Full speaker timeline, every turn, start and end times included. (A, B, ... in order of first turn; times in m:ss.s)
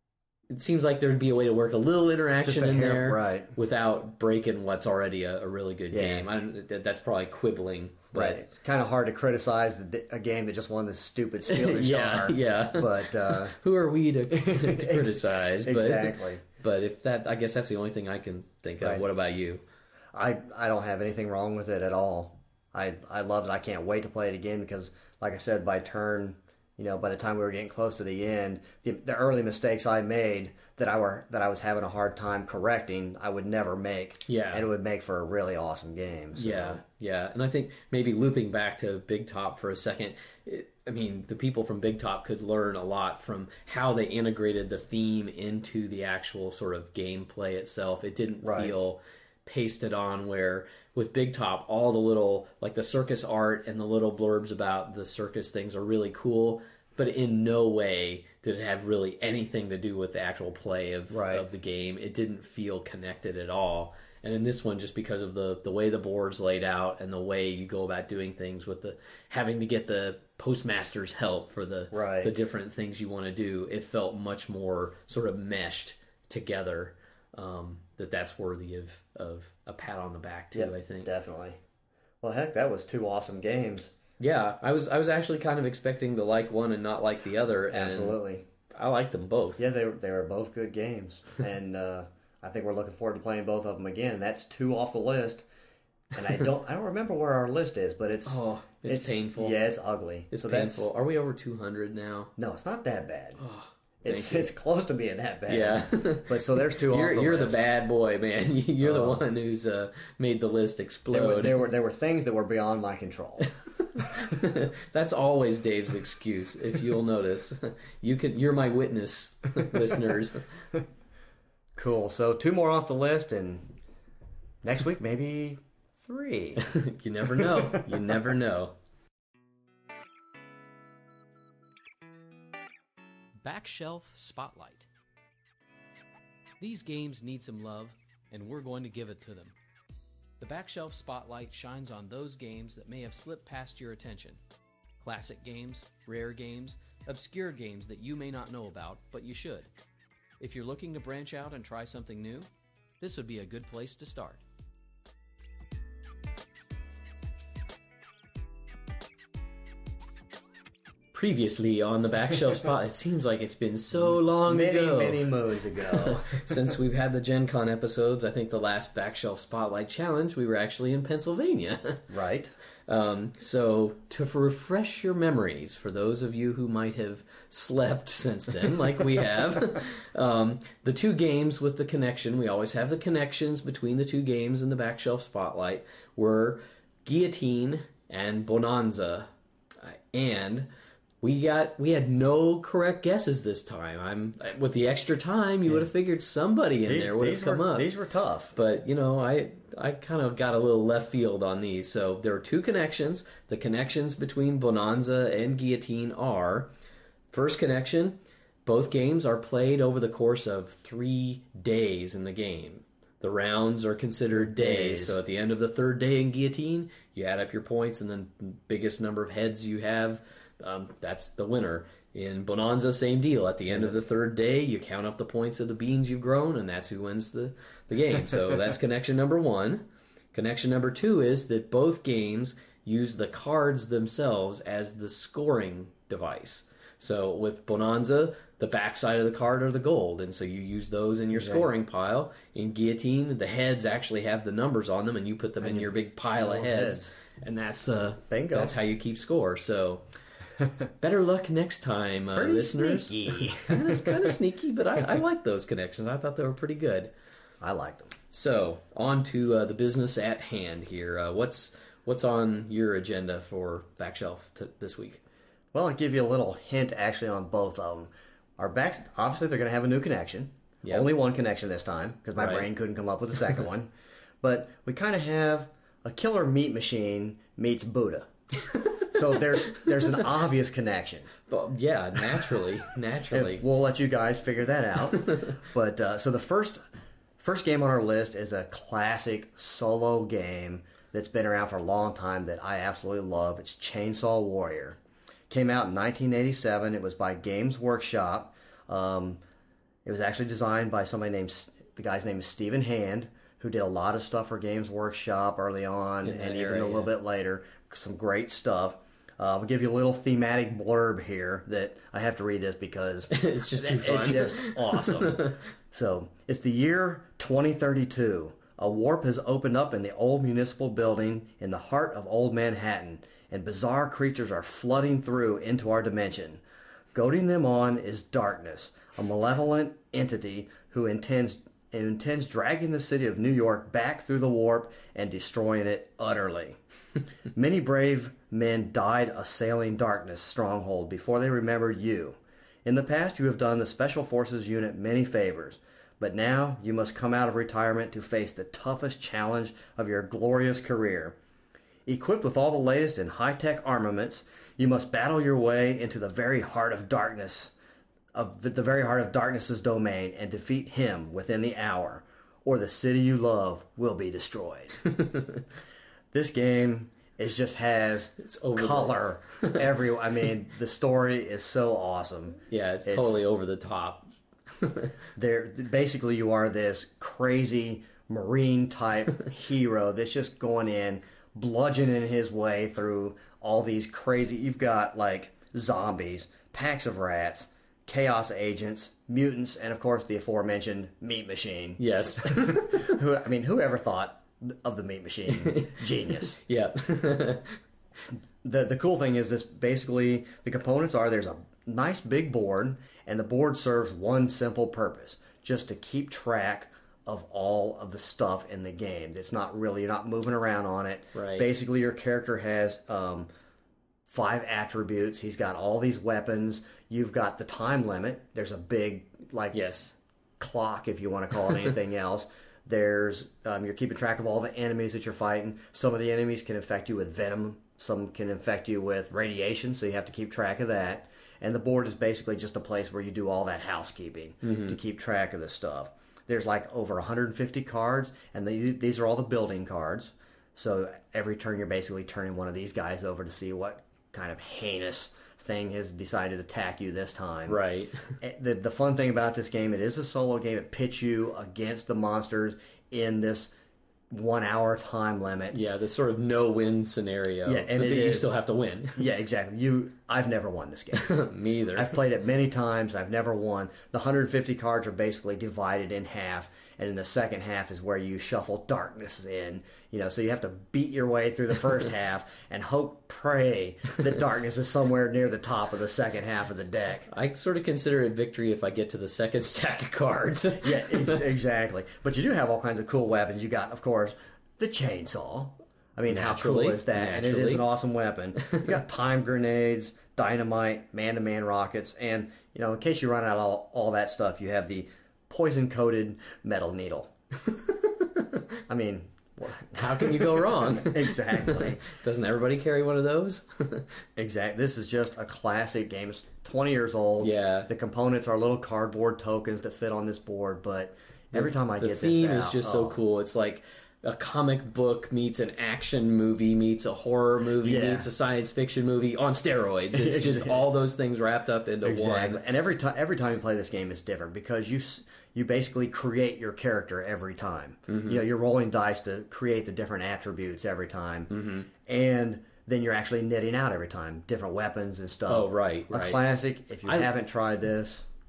0:00.5-0:08.4 A
0:02.4-0:03.5 B
0:05.9-0:06.3 B
0:08.1-0:13.6 B
0:11.5-0:19.6 A
0:14.3-0:16.4 B
0:20.1-0:36.8 B
0:34.3-0:34.6 A
0:36.3-1:21.1 A
0:48.4-0:48.7 B
1:01.1-1:01.4 B
1:11.9-1:12.3 B
1:20.5-1:21.6 B
1:22.2-1:23.9 B
1:24.2-1:29.6 A
1:27.7-1:28.4 B
1:29.6-1:35.4 B
1:36.1-1:40.9 B
1:38.2-1:39.6 A
1:40.3-1:42.3 A
1:42.4-1:43.4 B
1:43.4-1:44.5 A
1:44.0-1:47.6 B
1:45.5-1:51.6 A
1:48.8-1:49.2 B
1:51.1-1:53.5 B
1:53.8-2:00.6 A
2:01.8-2:03.8 B
2:04.6-2:06.6 B
2:06.6-2:08.7 A
2:07.3-2:07.9 B
2:13.4-2:14.9 A
2:16.6-2:19.5 A
2:20.4-2:24.4 A
2:25.0-2:29.7 A
2:30.4-2:32.5 A
2:33.0-2:34.4 A
2:41.1-2:52.1 A
2:44.0-2:46.4 B
2:52.1-2:52.5 B
2:52.9-3:09.3 A
3:09.8-3:10.7 A
3:11.2-3:17.9 A
3:16.8-3:18.5 B
3:18.5-3:26.7 A
3:27.3-4:10.0 A
3:34.3-3:35.2 B
3:43.7-3:43.9 B
4:01.3-4:01.7 B
4:05.6-4:07.1 B
4:08.3-4:08.7 B
4:10.6-4:10.8 B
4:11.0-4:17.1 A
4:12.3-4:14.3 B
4:17.6-4:18.1 B
4:18.3-4:25.2 A
4:25.7-4:33.9 B
4:30.8-4:31.1 A
4:32.4-4:32.6 A
4:34.4-4:38.3 B
4:38.6-4:40.2 A
4:39.1-4:41.3 B
4:41.5-4:43.6 A
4:43.3-4:46.8 B
4:45.2-4:45.6 A
4:47.4-4:55.0 B
4:55.5-4:59.4 B
5:00.0-5:26.6 B
5:06.2-5:07.1 A
5:13.3-5:15.6 A
5:27.1-5:36.8 B
5:37.5-5:51.4 B
5:52.0-5:57.7 B
5:58.3-6:05.0 B
6:05.0-6:05.6 A
6:06.3-6:13.4 B
6:08.4-6:09.8 A
6:12.7-6:15.1 A
6:15.4-6:36.6 B
6:32.0-6:33.2 A
6:35.5-6:37.8 A
6:38.6-6:53.5 B
6:51.3-6:51.7 A
6:54.3-6:59.8 B
6:59.7-7:00.1 A
7:00.6-7:27.8 B
7:14.6-7:15.0 A
7:27.7-7:28.4 A
7:28.4-7:33.7 B
7:34.3-7:35.8 B
7:35.7-7:39.2 A
7:37.6-7:38.5 B
7:39.2-7:41.3 B
7:41.1-7:42.2 A
7:41.9-7:57.3 B
7:57.3-8:01.4 A
8:00.8-8:17.3 B
8:06.3-8:07.9 A
8:08.6-8:08.9 A
8:17.7-8:18.6 A
8:18.9-8:22.0 B
8:19.9-8:24.1 A
8:24.4-8:33.2 B
8:27.4-8:27.9 A
8:31.5-8:42.6 A
8:37.8-8:38.3 B
8:40.1-8:40.8 B
8:42.0-8:58.3 B
8:48.1-8:48.4 A
8:51.5-8:51.9 A
8:55.5-8:56.4 A